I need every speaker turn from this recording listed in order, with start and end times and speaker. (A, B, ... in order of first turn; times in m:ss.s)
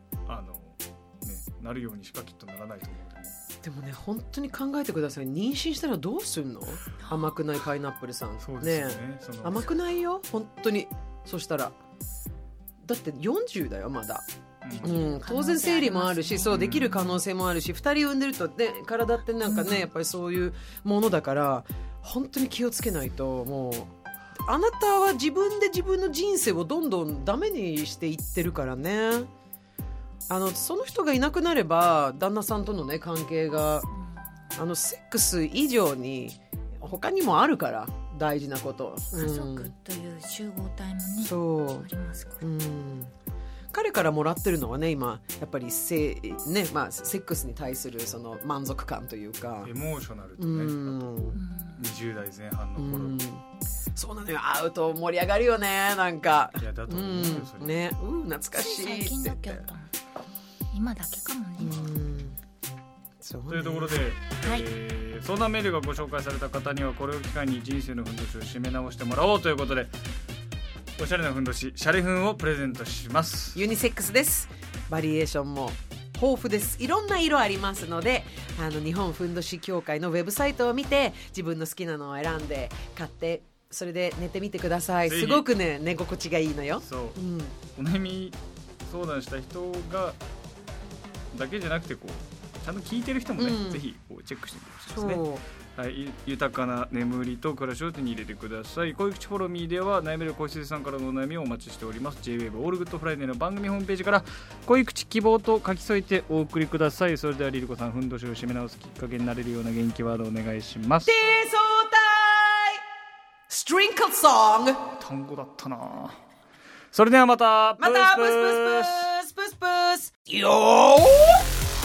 0:00.3-0:03.3 A
0:03.6-0:11.7 B
0:07.0-0:07.4 C
0:08.4-0:09.6 A
0:12.8-0:14.2 B
0:14.6-0:15.0 A
0:14.8-0:17.2 C
0:14.8-0:23.9 B
0:16.4-0:17.1 A
0:19.4-0:19.8 C
0:24.4-0:29.3 B
0:30.3-0:33.9 B
0:34.0-0:34.4 C
0:34.5-0:39.7 B
0:39.1-0:42.5 C
0:41.2-0:41.9 B
0:42.4-0:43.1 B
0:43.7-0:49.7 B
0:49.6-0:53.2 A
0:50.4-0:51.4 B
0:51.3-0:51.9 C
0:52.8-0:53.4 B
0:53.9-0:59.6 B
0:56.6-0:57.8 A
0:58.5-0:59.9 C
1:00.7-1:01.8 C
1:01.6-1:02.4 B
1:01.6-1:01.9 A
1:03.2-1:04.0 B
1:03.5-1:09.9 A
1:11.0-1:13.6 A
1:13.5-1:27.5 B
1:25.0-1:25.5 A
1:26.7-1:27.2 A
1:27.7-1:30.2 A
1:31.3-1:51.2 A
1:33.4-1:33.8 B
1:34.9-1:35.4 B
1:51.0-1:52.8 B
1:53.5-1:54.8 B
1:55.0-1:56.2 A
1:56.9-1:59.1 A
1:57.8-2:01.4 B